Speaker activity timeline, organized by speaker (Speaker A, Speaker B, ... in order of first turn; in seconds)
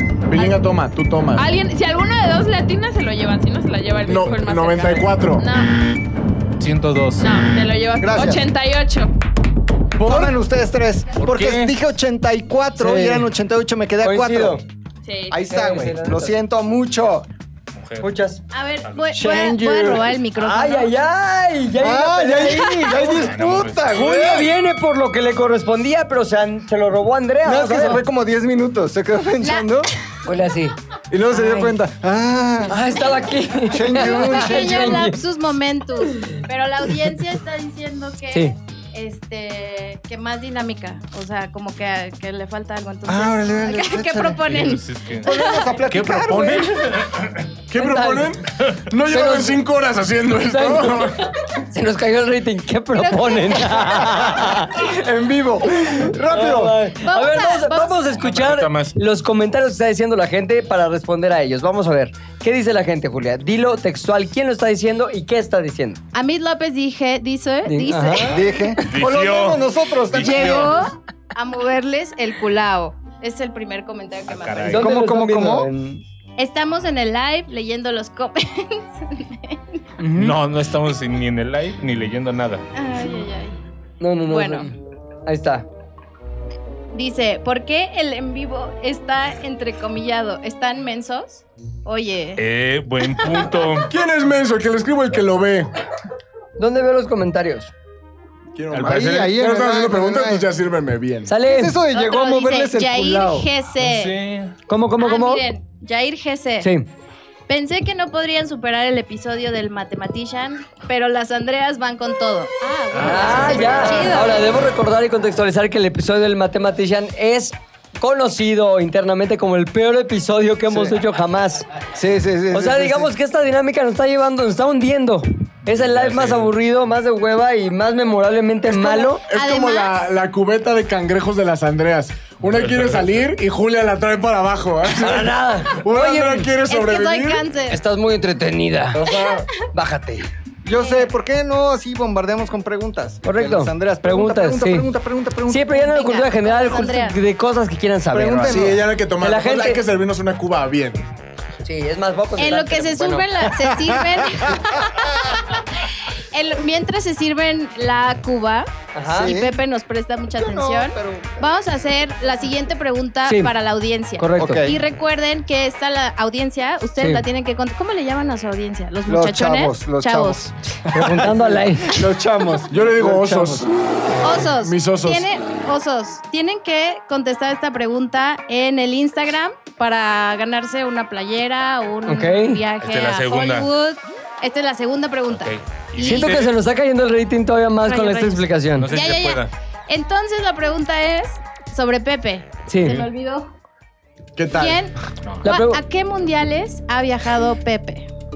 Speaker A: 0.3-1.5, 4.0-5.5, 9.9-10.3, 47.7-51.3, 93.9-95.7, 98.5-101.3, 129.2-137.4, 138.9-139.5, 148.4-151.1, 172.6-173.7, 174.4-175.2, 194.4-194.9
Speaker B: 1.4-5.9, 7.2-9.1, 15.0-15.4
Speaker C: 6.6-7.3, 11.2-11.7, 17.7-18.1, 18.8-19.1, 23.0-24.1, 44.5-47.4, 58.2-58.9, 68.9-70.8, 74.3-74.9, 80.1-82.6, 92.4-93.9, 98.7-99.1, 103.8-104.5, 112.9-114.2, 125.7-126.5, 132.5-133.1, 182.8-183.7, 185.3-186.5, 188.8-189.5
Speaker D: 8.0-8.5, 10.0-14.6, 15.3-17.3, 19.1-20.1, 21.8-24.5, 27.4-29.9, 31.1-32.8, 33.7-35.1, 43.1-44.5, 45.2-46.9, 54.4-56.8, 68.3-70.7, 74.7-75.7, 98.8-100.5, 101.4-103.5, 120.7-120.9, 121.9-123.1, 140.6-145.7, 148.1-148.9, 159.1-159.6, 160.4-161.4, 164.4-164.8, 169.1-173.7
Speaker E: 12.8-13.3, 14.0-14.6, 15.4-16.4, 18.0-18.4, 20.3-23.3, 23.9-28.0, 30.2-30.8, 31.3-31.7, 32.7-35.2, 47.7-48.4, 49.1-49.6, 50.5-54.8, 56.2-66.0, 67.7-68.4, 74.7-76.0, 80.0-80.4, 84.0-84.7, 85.2-85.7, 96.6-97.7, 101.3-101.8, 104.7-105.4, 106.6-106.8, 113.0-121.7, 122.5-129.2, 134.9-136.5, 137.7-139.1, 139.7-140.3, 143.2-144.9, 145.5-149.8, 151.6-153.5, 158.9-159.3, 163.2-163.5, 164.2-164.7, 167.0-167.2, 170.9-172.1, 182.1-182.6, 186.0-188.9, 192.7-193.1, 195.4-195.8
Speaker F: 18.5-20.9, 29.4-29.7, 33.9-45.6, 53.0-53.9, 57.0-58.0, 66.1-68.7, 70.1-74.8, 76.4-79.6, 82.7-83.5, 84.3-84.7, 86.9-92.4, 101.9-104.2, 105.0-106.7, 107.5-114.5, 128.8-130.0, 136.7-137.8, 140.8-141.1, 145.7-147.2, 152.4-170.5, 174.2-186.4, 187.8-193.5, 194.5-194.9, 195.4-198.1